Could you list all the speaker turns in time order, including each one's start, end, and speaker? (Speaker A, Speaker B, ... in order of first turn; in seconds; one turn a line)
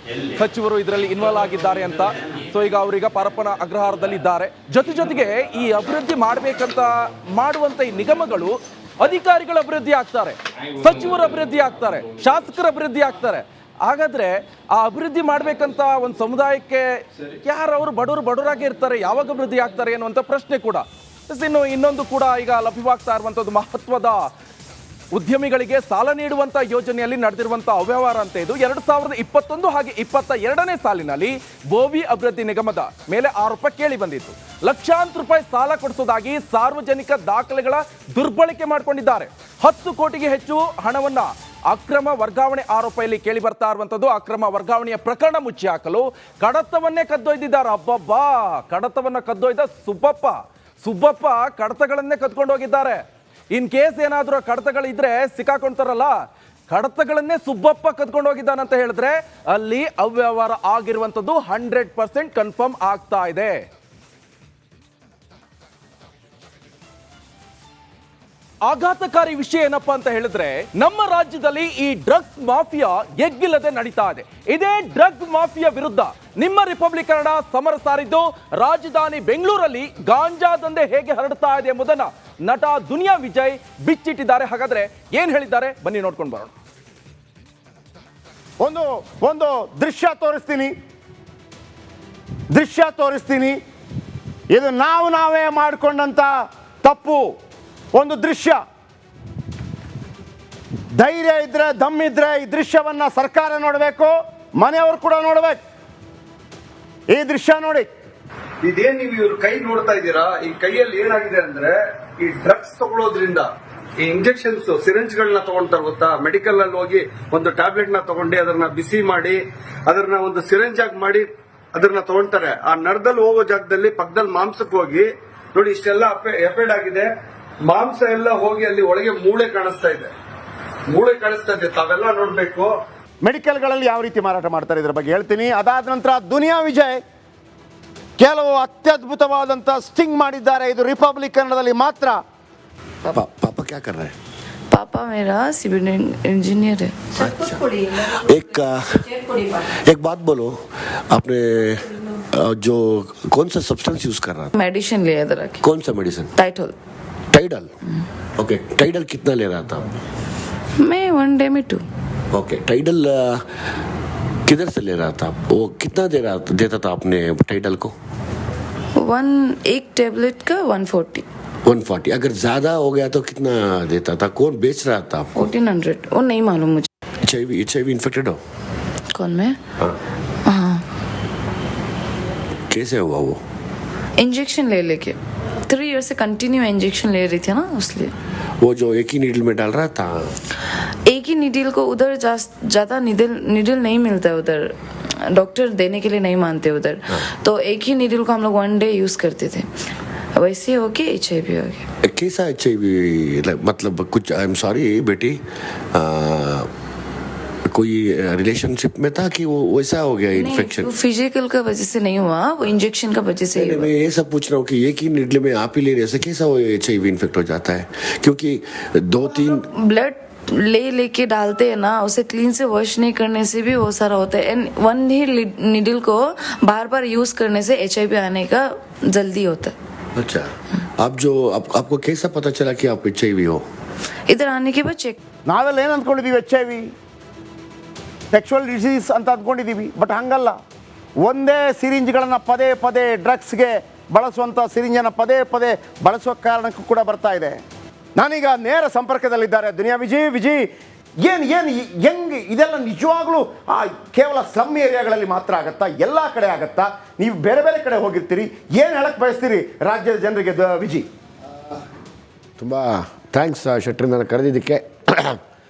Speaker A: 0.4-16.9
Speaker A: 17.4-24.2
Speaker A: 25.1-53.0
Speaker A: 53.5-56.1
Speaker A: 56.7-63.6
Speaker A: 68.7-86.5
Speaker B: 88.6-90.7
Speaker B: 92.5-93.6
Speaker B: 94.5-96.3
Speaker B: 96.8-97.3
Speaker B: 97.9-98.6
Speaker B: 101.0-105.6
Speaker B: 107.1-107.9
Speaker C: 108.6-127.1
Speaker C: 127.7-130.1
Speaker C: 130.9-132.8
Speaker B: 133.2-137.0
Speaker B: 138.2-142.2
Speaker D: 143.1-144.1
Speaker E: 144.7-147.2
Speaker D: 147.2-149.3
Speaker D: 149.9-150.5
Speaker D: 151.1-154.5
Speaker E: 154.6-155.7
Speaker D: 155.6-156.3
Speaker E: 156.4-156.8
Speaker D: 157.3-157.7
Speaker D: 158.4-159.9
Speaker E: 160.8-161.8
Speaker D: 162.3-163.4
Speaker D: 164.5-167.9
Speaker E: 169.0-171.2
Speaker D: 171.7-175.4
Speaker E: 175.3-176.9
Speaker D: 177.3-178.4
Speaker E: 179.2-179.6
Speaker E: 180.5-180.8
Speaker D: 182.7-183.4
Speaker E: 184.2-185.2
Speaker E: 185.7-188.1
Speaker D: 188.6-190.3
Speaker E: 191.1-194.7
Speaker E: 195.3-199.7
Speaker E: 200.4-201.9
Speaker D: 202.1-205.4
Speaker D: 205.9-206.7
Speaker D: 207.7-210.9
Speaker E: 210.3-213.9
Speaker D: 213.6-219.6
Speaker E: 219.5-229.8
Speaker D: 230.2-230.5
Speaker D: 231.0-233.6
Speaker E: 234.3-235.2
Speaker B: 235.5-236.9
Speaker B: 238.3-240.6
Speaker B: 241.2-247.6
Speaker B: 248.2-250.6
Speaker B: 251.2-261.1
Speaker D: 262.6-265.4